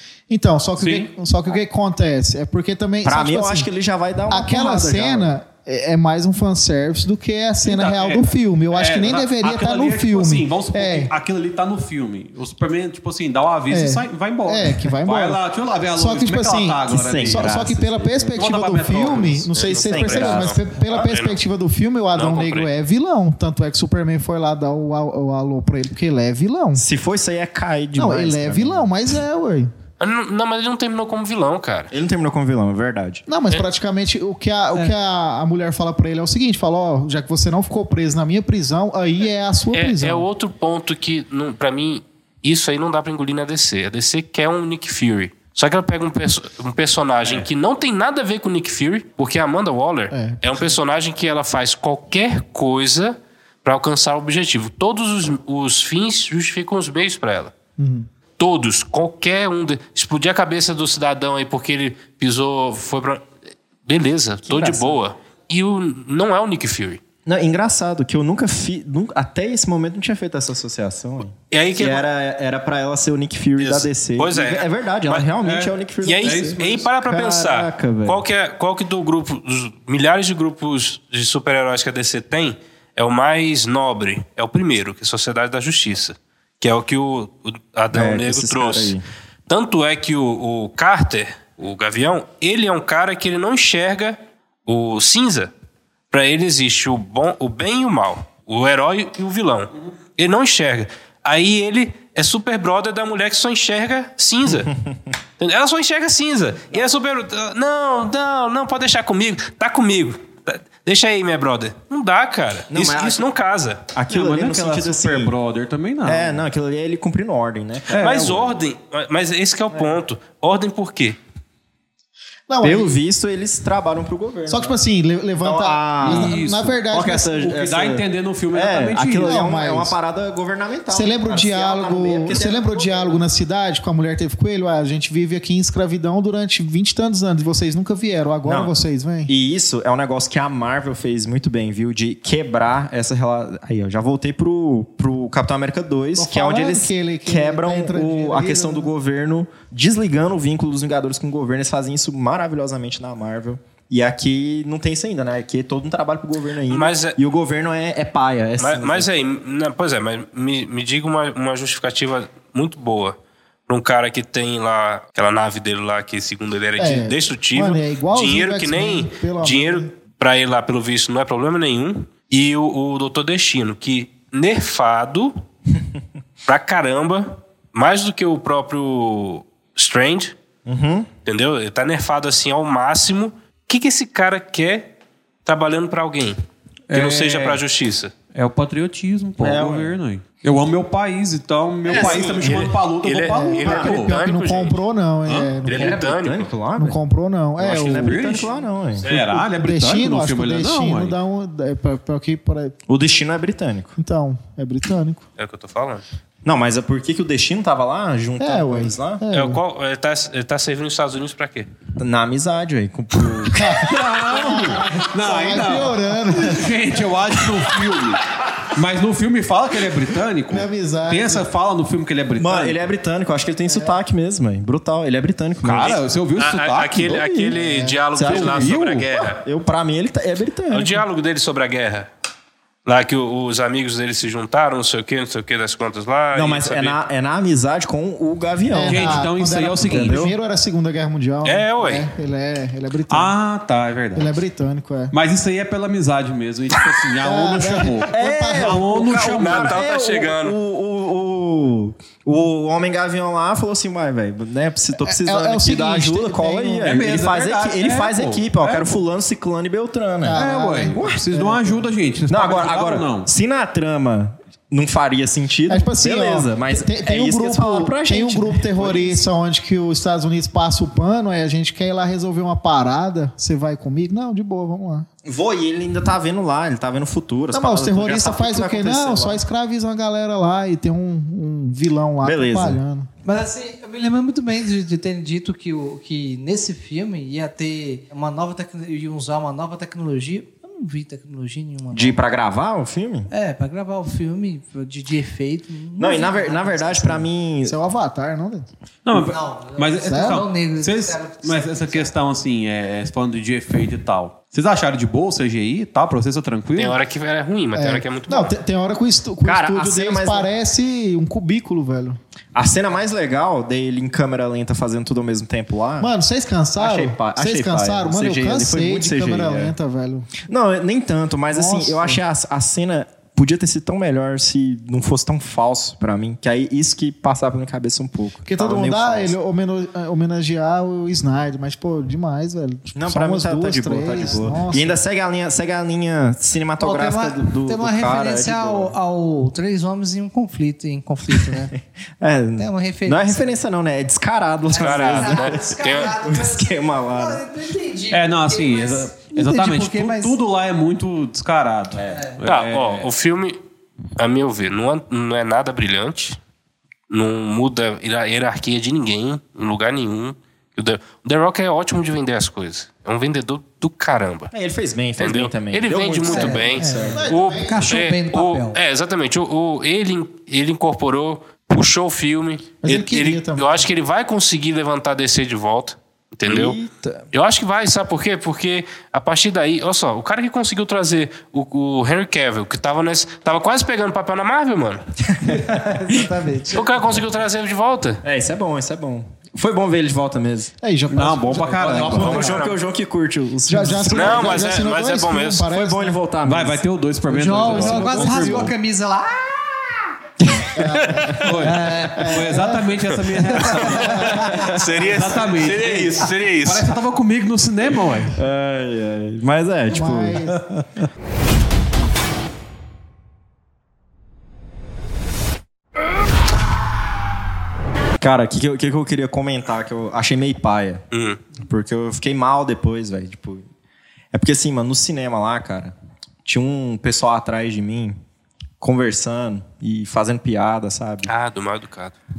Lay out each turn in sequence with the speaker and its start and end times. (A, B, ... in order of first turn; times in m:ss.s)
0:00.3-0:03.7 A
0:00.8-0:01.1 B
0:03.0-0:05.3 C
0:04.3-0:11.1 A
0:07.6-0:17.6 B
0:13.7-0:15.4 A
0:16.0-0:26.8 A
0:16.9-0:18.4 C
0:18.3-0:19.5 B
0:19.5-0:21.4 D
0:19.7-0:20.6 C
0:22.1-0:22.7 D
0:26.7-0:28.9 C
0:28.0-0:29.7 A
0:30.0-0:31.9 D
0:31.9-0:33.2 C
0:33.3-0:40.2 A
0:39.7-0:57.5 D
0:50.1-0:50.7 A
0:57.8-0:58.1 A
0:58.4-1:03.2 D
1:03.8-1:07.0 D
1:04.5-1:05.0 C
1:07.2-1:18.2 C
1:11.5-1:12.0 D
1:13.6-1:15.2 D
1:15.4-1:16.9 B
1:16.0-1:29.0 D
1:27.9-1:29.0 C
1:29.5-1:35.5 D
1:36.1-1:44.7 D
1:44.4-1:45.0 C
1:45.4-1:53.8 D
1:52.7-1:53.2 C
1:53.9-1:55.3 C
1:54.1-1:56.4 B
1:56.0-1:58.6 C
1:57.9-1:58.3 B
1:58.0-2:01.2 D
1:59.7-2:00.0 C
2:02.5-2:02.9 A
2:02.6-2:04.8 C
2:04.5-2:07.4 A
2:05.4-2:06.4 C
2:06.0-2:06.8 B
2:06.9-2:13.2 C
2:07.3-2:09.4 B
2:09.2-2:09.9 A
2:10.9-2:19.3 A
2:18.4-2:18.7 C
2:19.3-2:39.1 C
2:26.2-2:28.9 A
2:36.7-2:37.2 D
2:38.6-2:43.2 D
2:43.7-2:55.3 D
2:46.8-2:49.9 A
2:56.5-3:00.3 D
3:00.6-3:01.1 C
3:01.2-3:04.9 D
3:05.4-3:06.4 D
3:06.9-3:07.6 B
3:06.9-3:08.1 D
3:08.3-3:14.1 B
3:09.4-3:10.0 C
3:11.8-3:12.7 C
3:11.9-3:14.8 D
3:13.3-3:16.0 A
3:15.6-3:16.5 D
3:15.6-3:17.0 C
3:16.8-3:18.2 A
3:17.6-3:19.0 C
3:17.9-3:18.5 B
3:19.0-3:19.3 D
3:19.0-3:21.2 B
3:19.4-3:22.8 A
3:22.9-3:23.9 C
3:24.0-3:25.2 A
3:25.4-3:26.0 D
3:26.4-3:29.2 C
3:28.4-3:29.6 A
3:29.3-3:31.7 D
3:32.0-3:34.6 C
3:33.5-3:36.7 A
3:33.9-3:42.8 B
3:40.5-3:41.4 A
3:42.4-3:46.0 C
3:45.6-3:47.1 B
3:45.8-3:49.4 D
3:47.0-3:47.6 C
3:47.5-3:48.0 A
3:48.1-3:51.0 C
3:48.2-3:49.0 B
3:50.7-3:52.1 D
3:52.8-3:57.0 D
3:56.3-3:59.2 C
3:58.7-4:03.3 A
3:58.9-4:00.3 B
3:59.9-4:00.3 C
4:01.4-4:02.1 D
4:03.1-4:04.4 B
4:04.1-4:05.1 A
4:05.1-4:09.8 B
4:07.2-4:08.8 A
4:08.1-4:21.2 C
4:09.3-4:10.6 D
4:15.0-4:16.9 A
4:16.8-4:18.9 B
4:20.2-4:21.8 A
4:20.3-4:23.3 B
4:22.3-4:29.2 C
4:25.7-4:35.1 A
4:35.2-4:39.4 C
4:37.5-4:43.1 A
4:42.2-4:42.8 C
4:43.2-4:52.2 E
4:51.9-4:53.3 C
4:53.3-4:57.2 E
4:56.0-4:57.8 C
4:57.6-4:58.6 A
4:59.0-5:07.0 B
4:59.1-5:02.1 E
5:00.0-5:00.4 A
5:06.8-5:08.5 D
5:07.7-5:12.2 A
5:09.4-5:10.5 C
5:12.5-5:16.1 C
5:16.0-5:20.3 A
5:16.8-5:19.7 C
5:20.4-5:29.3 C
5:21.5-5:22.2 A
5:28.4-5:35.0 A
5:32.9-5:38.9 C
5:36.8-5:41.7 E
5:42.2-5:47.4 C
5:42.6-5:43.5 E
5:44.7-5:50.4 E
5:44.8-5:46.2 D
5:48.1-5:53.0 B
5:52.0-5:52.3 C
5:52.1-5:52.4 E
5:52.4-5:53.6 D
5:54.2-5:56.4 D
5:57.1-6:04.5 D
6:04.5-6:07.2 C
6:05.2-6:16.8 D
6:06.2-6:08.8 E
6:07.1-6:07.8 A
6:12.8-6:13.8 A
6:16.4-6:17.3 C
6:17.3-6:25.0 D
6:25.4-6:26.1 C
6:25.6-6:26.8 E
6:26.7-6:28.2 D
6:28.2-6:30.7 C
6:30.8-6:32.5 A
6:31.1-6:32.6 B
6:31.9-6:34.8 C
6:32.1-6:32.8 D
6:33.7-6:36.2 A
6:34.1-6:35.7 D
6:35.7-6:36.8 C
6:36.4-6:38.7 B
6:37.3-6:39.8 E
6:37.7-6:38.6 A
6:40.4-6:41.5 C
6:40.8-6:41.4 A
6:41.4-6:44.3 B
6:41.6-6:42.4 E
6:42.2-6:42.8 A
6:43.6-6:46.9 D
6:43.8-6:45.0 C
6:45.0-6:48.4 B
6:48.4-6:50.5 C
6:49.9-6:50.6 A
6:58.2-7:01.0 C
7:01.1-7:01.4 D
7:01.6-7:03.6 C
7:04.3-7:08.2 C
7:08.8-7:11.3 C
7:11.2-7:12.2 D